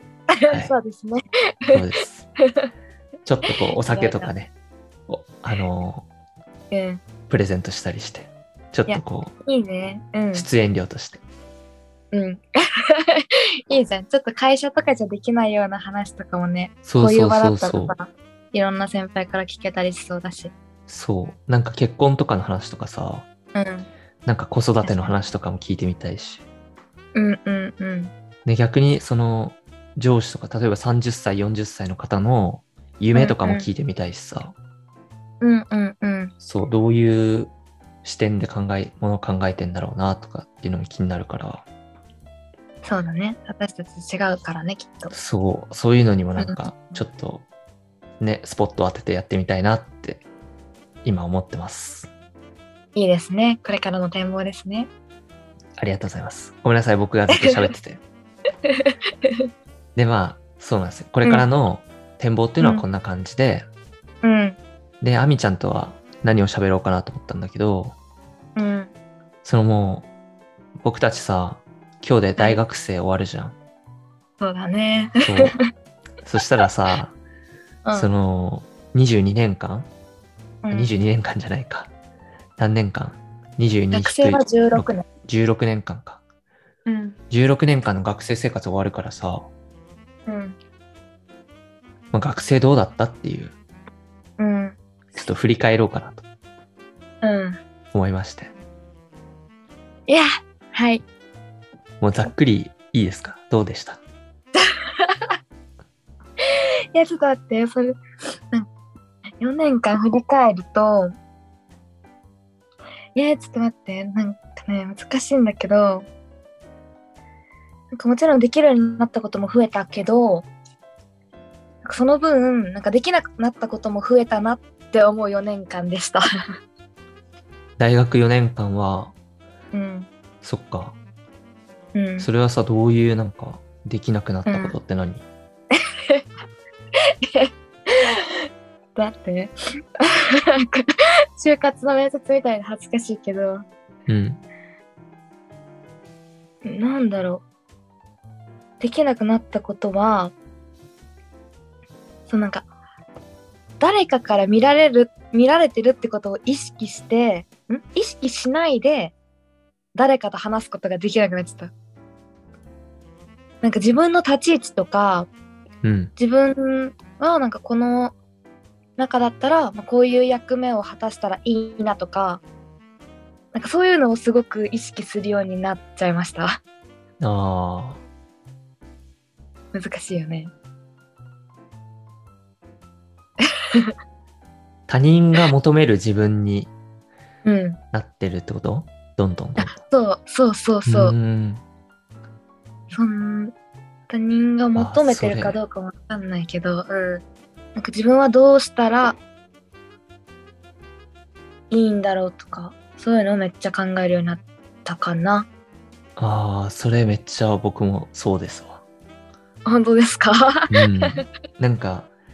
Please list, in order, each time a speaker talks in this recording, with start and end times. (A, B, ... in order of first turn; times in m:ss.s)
0:00.3-0:01.2 A
0:00.5-0:00.7 B
0:01.7-0:02.2 B
0:02.4-0:02.7 A
0:03.2-0:04.5 B
0:03.5-0:04.3 A
0:05.1-0:06.0 B
0:06.7-0:07.0 A
0:07.3-0:09.3 B
0:08.9-0:10.5 A
0:10.3-0:11.2 B
0:12.1-0:20.5 A
0:16.8-0:17.9 B
0:20.9-0:23.3 B
0:23.5-0:23.9 A
0:24.2-0:26.4 B
0:24.8-0:25.1 A
0:27.1-0:28.1 A
0:28.4-0:34.5 B
0:33.1-0:33.7 A
0:35.4-0:36.3 A
0:36.4-0:37.5 B
0:38.0-0:41.6 B
0:42.8-0:45.1 A
0:45.1-0:47.4 B
0:46.4-0:46.6 A
0:48.2-0:50.2 B
0:51.0-0:52.1 B
0:52.9-0:54.9 A
0:55.8-0:58.0 B
0:57.3-0:57.7 A
0:58.7-0:59.3 A
1:00.0-1:03.7 B
1:04.2-1:04.6 A
1:05.0-1:08.0 B
1:08.6-1:08.9 A
1:09.4-1:10.1 B
1:10.8-1:13.6 B
1:14.4-1:15.6 A
1:15.2-1:15.6 B
1:16.2-1:17.1 B
1:17.9-1:19.9 B
1:20.6-1:20.9 A
1:20.7-1:21.9 B
1:22.6-1:26.2 B
1:23.9-1:25.0 A
1:26.8-1:27.2 A
1:27.3-1:29.5 B
1:30.3-1:30.6 A
1:32.1-1:33.5 B
1:34.4-1:34.8 A
1:35.1-1:36.2 B
1:37.2-1:37.6 A
1:37.9-1:38.5 B
1:40.1-1:41.0 A
1:42.0-1:44.0 B
1:44.6-1:45.3 A
1:46.5-1:48.7 A
1:49.4-1:51.1 A
1:53.1-1:56.1 A
1:57.9-2:00.5 A
2:01.8-2:06.2 A
2:07.8-2:09.1 B
2:09.7-2:10.1 A
2:10.4-2:11.0 B
2:11.9-2:12.3 A
2:12.2-2:15.2 B
2:14.4-2:14.7 A
2:17.2-2:23.6 A
2:24.1-2:24.4 B
2:26.6-2:27.4 A
2:28.8-2:30.3 A
2:32.3-2:32.6 A
2:33.8-2:39.1 A
2:39.9-2:41.7 A
2:43.6-2:45.3 A
2:45.8-2:46.1 B
2:46.2-2:48.1 A
2:49.0-2:52.4 A
2:53.5-2:56.6 A
2:57.2-2:58.0 B
2:59.7-3:00.5 A
3:03.6-3:03.9 A
3:04.9-3:06.7 B
3:07.4-3:07.8 A
3:07.9-3:09.8 B
3:09.6-3:11.1 A
3:10.8-3:11.6 B
3:12.9-3:13.5 A
3:14.1-3:17.2 A
3:14.8-3:15.6 B
3:17.7-3:19.2 A
3:21.7-3:25.5 A
3:26.2-3:28.8 B
3:29.6-3:31.2 A
3:30.7-3:32.1 B